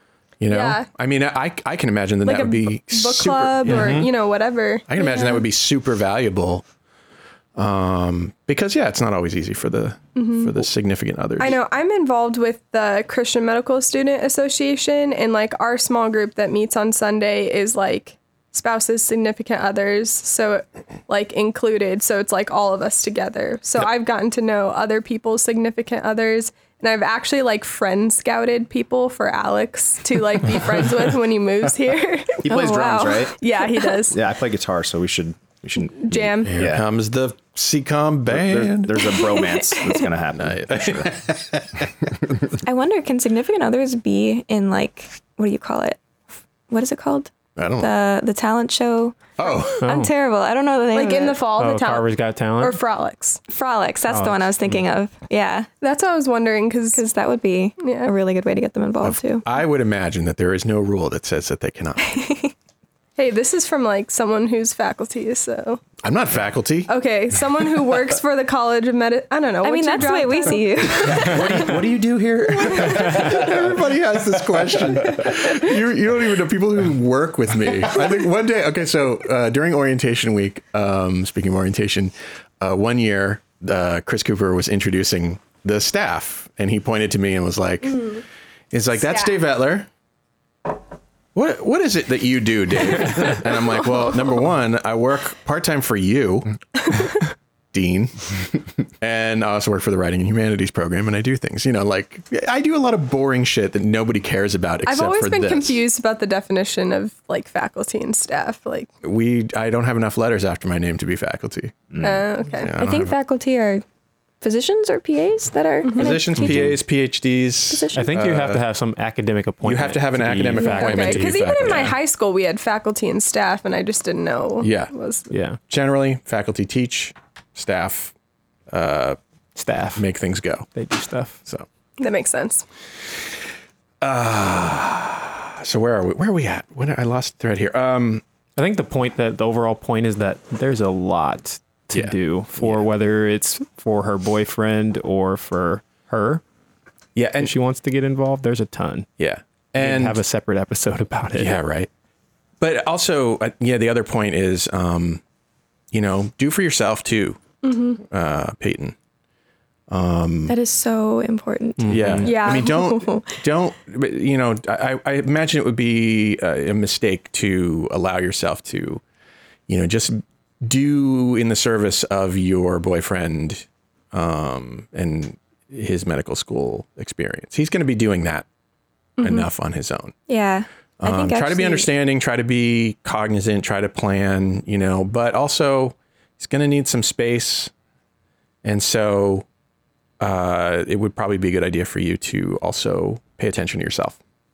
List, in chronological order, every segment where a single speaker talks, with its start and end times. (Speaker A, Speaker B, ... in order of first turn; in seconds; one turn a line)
Speaker A: 0.4-4.1
Speaker B: 0.5-0.9
Speaker B: 2.2-5.4
Speaker C: 3.7-4.1
Speaker A: 4.9-6.6
Speaker A: 7.6-11.6
Speaker B: 10.2-10.7
Speaker B: 11.4-34.2
Speaker D: 32.4-33.4
Speaker E: 32.5-33.3
Speaker D: 34.1-36.9
Speaker B: 36.0-36.5
Speaker A: 36.5-39.0
Speaker D: 38.3-41.2
Speaker E: 39.2-40.0
Speaker A: 40.4-41.9
Speaker E: 42.6-46.0
Speaker E: 46.7-51.4
Speaker A: 47.6-47.9
Speaker A: 49.4-49.9
Speaker C: 49.8-50.1
Speaker B: 50.9-53.4
Speaker C: 51.5-52.8
Speaker E: 53.5-55.7
Speaker C: 54.1-54.8
Speaker B: 55.8-57.0
Speaker E: 57.0-59.4
Speaker B: 57.8-58.1
Speaker A: 59.0-62.1
Speaker E: 62.0-62.5
Speaker B: 63.2-65.8
Speaker A: 66.0-66.9
Speaker B: 66.9-71.4
Speaker E: 69.6-71.5
Speaker A: 71.1-88.2
Speaker B: 72.6-73.3
Speaker B: 87.9-88.2
Speaker A: 88.7-89.9
Speaker B: 89.0-89.4
Speaker A: 91.3-97.0
Speaker A: 97.7-98.3
Speaker A: 99.0-105.8
Speaker B: 104.8-108.9
Speaker A: 109.0-111.8
Speaker D: 111.9-112.2
Speaker B: 112.0-112.7
Speaker A: 112.6-113.1
Speaker E: 112.8-113.8
Speaker E: 114.4-116.7
Speaker B: 115.8-116.2
Speaker A: 116.0-118.6
Speaker C: 116.4-116.8
Speaker E: 117.7-118.1
Speaker C: 117.9-121.4
Speaker A: 119.6-122.0
Speaker B: 120.6-125.3
Speaker A: 124.6-124.9
Speaker C: 125.3-125.6
Speaker A: 125.7-128.1
Speaker A: 128.7-129.2
Speaker C: 129.6-130.0
Speaker A: 129.9-130.7
Speaker C: 130.7-131.4
Speaker B: 132.0-132.7
Speaker A: 134.0-138.2
Speaker C: 138.6-146.4
Speaker A: 141.9-142.9
Speaker A: 147.2-147.5
Speaker C: 147.4-149.1
Speaker A: 149.2-150.2
Speaker C: 149.8-151.6
Speaker A: 151.3-151.9
Speaker A: 152.6-155.2
Speaker A: 155.9-157.4
Speaker B: 157.6-158.0
Speaker A: 158.0-158.9
Speaker A: 159.9-160.6
Speaker E: 160.5-163.3
Speaker C: 161.8-162.4
Speaker A: 161.9-169.0
Speaker B: 162.2-163.0
Speaker A: 169.7-178.5
Speaker B: 179.2-179.5
Speaker A: 179.2-180.2
Speaker E: 180.3-181.9
Speaker A: 181.0-187.7
Speaker A: 188.6-189.5
Speaker A: 190.2-194.2